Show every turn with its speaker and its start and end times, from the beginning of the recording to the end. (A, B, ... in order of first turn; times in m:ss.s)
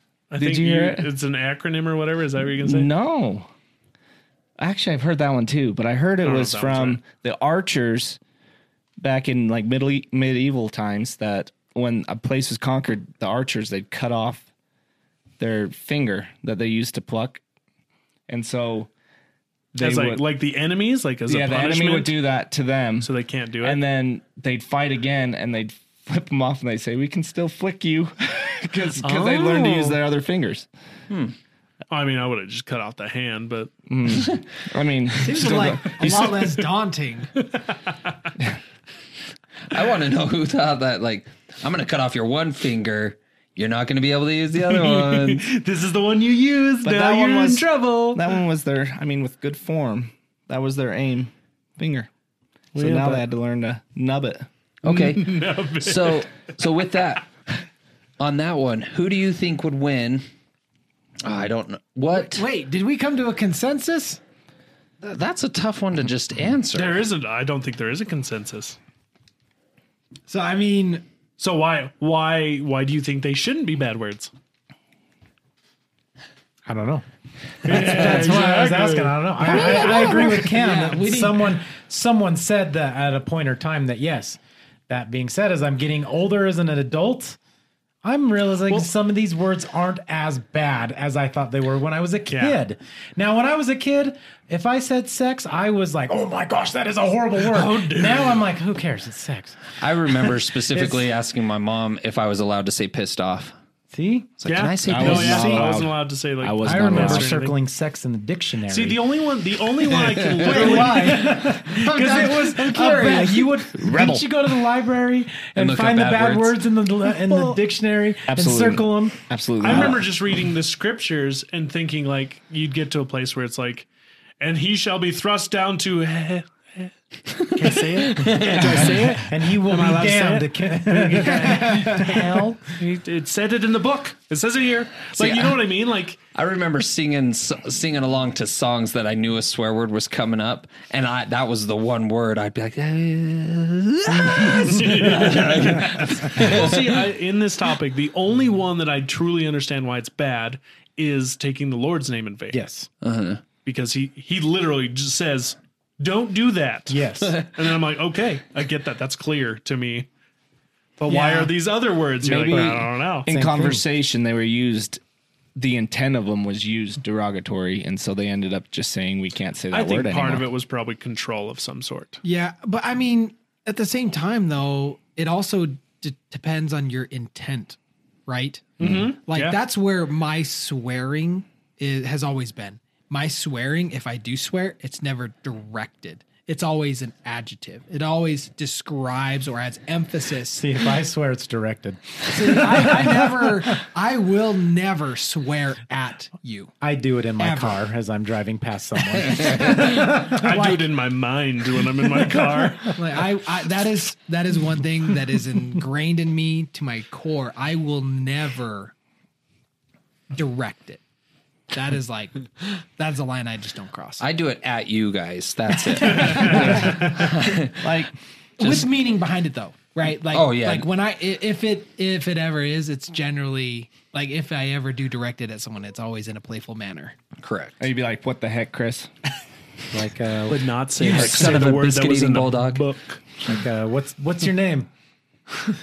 0:00.3-0:02.9 A
0:00.4-0:01.1 B
0:02.6-0:03.5 B
0:04.6-0:08.2 B
0:06.2-0:07.0 A
0:09.0-0:14.4 B
0:15.4-0:17.4 B
0:18.3-0:18.9 B
0:19.7-0:20.2 B
0:19.7-0:22.2 A
0:21.3-0:23.1 B
0:23.0-0:23.8 A
0:23.6-0:30.7 B
0:29.0-0:30.0 A
0:31.1-0:31.3 C
0:31.9-0:33.7 A
0:33.9-0:36.4 B
0:35.2-0:37.3 D
0:37.4-0:38.1 A
0:39.7-0:45.4 C
0:44.6-0:48.3 A
0:46.8-0:52.1 B
0:52.7-0:54.4 B
0:54.8-0:57.3 C
0:54.8-0:56.5 A
0:58.2-1:00.2 C
1:01.2-1:02.4 C
1:02.1-1:04.2 D
1:05.0-1:07.0 C
1:06.7-1:08.8 A
1:10.3-1:11.0 D
1:11.4-1:14.3 A
1:16.7-1:17.0 E
1:17.6-1:27.4 E
1:17.6-1:19.8 A
1:19.4-1:21.4 D
1:28.0-1:39.6 E
1:32.3-1:32.6 A
1:37.4-1:38.4 A
1:39.8-1:43.5 C
1:40.7-1:41.0 E
1:43.9-1:44.3 E
1:44.4-1:45.7 C
1:44.4-1:47.5 A
1:44.9-1:47.3 B
1:46.6-1:49.0 E
1:48.7-1:51.4 A
1:50.2-1:53.6 D
1:50.3-1:50.6 C
1:50.6-1:59.2 E
1:53.8-1:54.3 B
1:55.6-1:56.5 C
1:57.3-1:57.6 A
1:58.3-2:00.1 B
1:59.6-2:03.9 A
2:04.4-2:06.9 A
2:07.3-2:09.0 C
2:07.5-2:16.2 A
2:08.6-2:12.7 E
2:15.2-2:15.6 C
2:16.3-2:27.0 C
2:24.3-2:32.6 A
2:32.5-2:32.9 E
2:33.0-2:33.4 C
2:33.6-2:40.1 A
2:36.9-2:37.4 E
2:41.0-2:43.3 A
2:41.1-2:41.5 D
2:42.2-2:45.0 B
2:42.5-2:42.8 C
2:43.3-2:43.8 E
2:45.6-2:50.5 B
2:49.7-2:52.2 A
2:52.2-3:10.6 D
2:58.8-2:59.6 A
3:10.6-3:13.3 E
3:12.3-3:16.7 D
3:16.8-3:20.5 E
3:17.4-3:17.8 D
3:19.6-3:23.0 A
3:20.5-3:20.9 D
3:23.0-3:28.9 D
3:30.3-3:31.0 D
3:31.7-3:34.2 D
3:34.2-3:37.8 C
3:36.0-3:37.1 D
3:36.2-3:36.6 A
3:37.8-3:38.8 B
3:38.6-3:47.2 D
3:40.3-3:40.9 C
3:47.4-3:47.8 C
3:47.8-3:49.1 B
3:49.9-3:51.6 E
3:50.5-3:53.2 A
3:51.0-3:52.8 C
3:51.2-3:51.5 B
3:53.4-3:54.9 E